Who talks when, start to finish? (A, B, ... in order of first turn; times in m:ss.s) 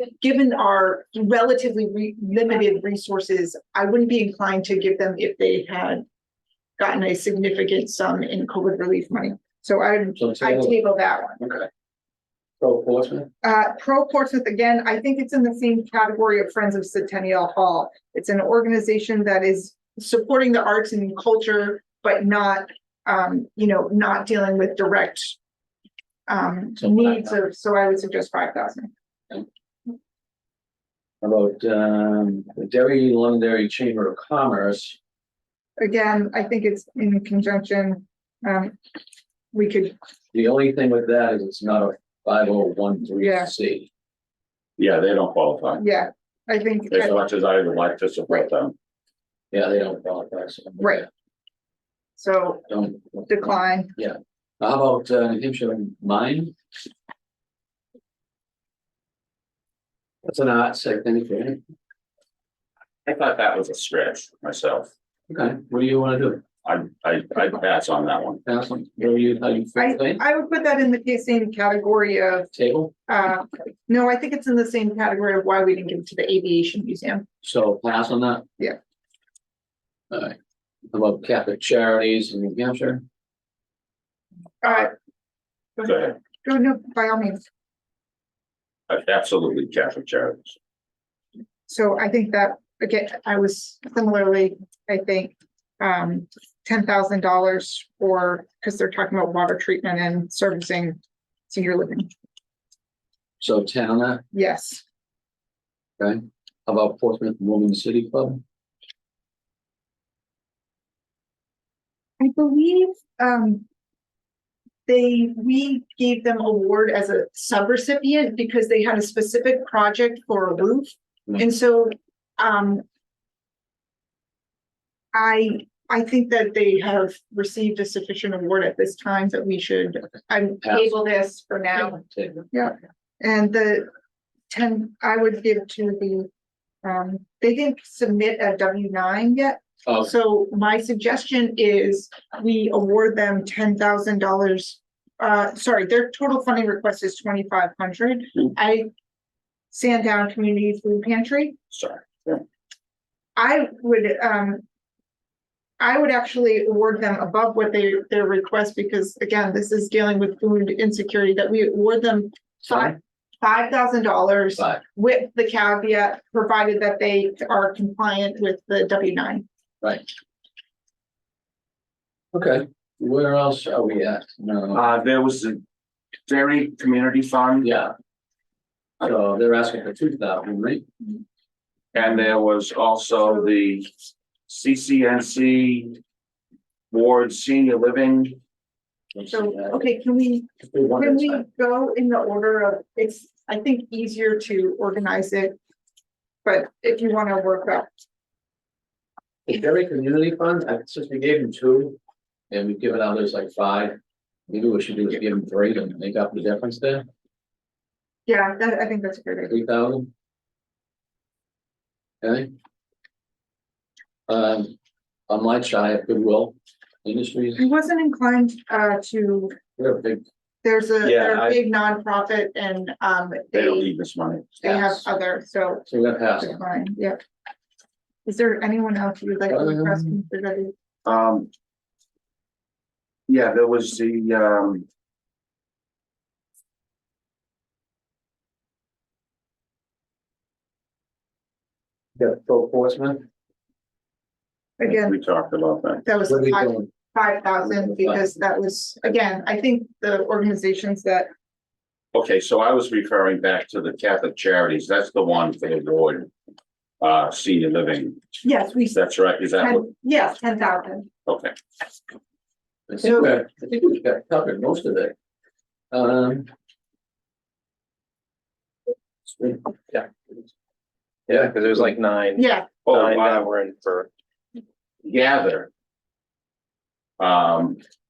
0:00.2-0:06.0 A
0:06.8-0:11.4 A
0:10.2-0:10.8 B
0:11.4-0:11.7 B
0:12.6-0:13.3 B
0:13.4-0:25.4 A
0:26.3-0:28.9 A
0:26.8-0:27.3 B
0:31.2-0:35.0 B
0:35.8-0:38.8 A
0:39.5-0:40.0 A
0:40.3-0:43.9 B
0:43.2-0:43.5 A
0:44.8-0:45.8 C
0:45.8-0:47.3 A
0:46.9-0:48.7 C
0:49.5-0:51.1 B
0:50.8-0:51.0 A
0:52.2-0:52.6 A
0:52.7-0:56.6 B
0:53.3-0:53.9 A
1:00.2-1:01.6 B
1:03.0-1:04.9 C
1:05.3-1:06.4 B
1:06.6-1:08.4 C
1:08.4-1:10.2 B
1:09.8-1:12.5 A
1:12.5-1:12.9 B
1:13.1-1:17.2 A
1:17.4-1:18.5 B
1:20.1-1:20.4 B
1:20.9-1:23.0 B
1:24.6-1:24.9 A
1:25.8-1:27.4 A
1:25.8-1:26.1 C
1:28.9-1:30.5 C
1:31.7-1:42.1 A
1:43.4-1:44.2 B
1:44.3-1:44.8 A
1:46.0-1:48.4 B
1:52.2-1:53.6 A
1:54.9-2:02.8 A
2:05.1-2:13.9 A
2:10.6-2:11.0 B
2:11.8-2:12.5 B
2:14.5-2:16.3 A
2:16.8-2:28.9 A
2:29.7-2:31.6 A
2:31.7-2:32.4 C
2:33.4-2:34.6 A
2:35.8-2:49.4 A
2:52.3-2:54.9 B
2:54.7-2:55.6 C
2:56.3-2:57.7 C
2:57.6-2:57.9 B
2:59.0-3:00.8 B
3:01.9-3:03.9 C
3:04.5-3:06.0 C
3:06.9-3:08.4 C
3:09.1-3:09.8 B
3:09.3-3:15.6 A
3:10.6-3:11.4 B
3:16.4-3:17.9 A
3:19.4-3:22.0 B
3:22.5-3:24.0 B
3:24.5-3:27.0 B
3:28.3-3:29.5 A
3:29.5-3:30.1 B
3:32.2-3:32.5 B
3:34.3-3:34.7 B
3:35.3-3:37.6 B
3:37.6-3:39.6 A
3:39.8-3:40.2 B
3:40.6-3:43.9 A
3:41.1-3:41.5 B
3:43.5-3:44.8 C
3:44.6-3:47.2 A
3:45.9-3:46.6 B
3:48.2-3:50.7 A
3:49.5-3:50.1 B
3:51.0-3:51.5 C
3:53.3-3:54.8 C
4:02.2-4:03.2 B
4:04.8-4:05.1 A
4:04.8-4:06.0 C
4:06.0-4:11.3 A
4:06.3-4:06.9 B
4:07.6-4:08.2 B
4:12.1-4:16.3 C
4:17.0-4:18.2 C
4:18.4-4:19.0 A
4:18.9-4:19.9 C
4:19.6-4:21.1 A
4:21.3-4:21.5 C
4:22.9-4:25.1 B
4:23.0-4:23.3 A
4:25.9-4:26.5 B
4:29.2-4:30.0 B
4:31.6-4:34.1 D
4:32.4-4:32.7 A
4:32.8-4:33.5 C
4:35.0-4:35.7 C
4:37.2-4:37.8 C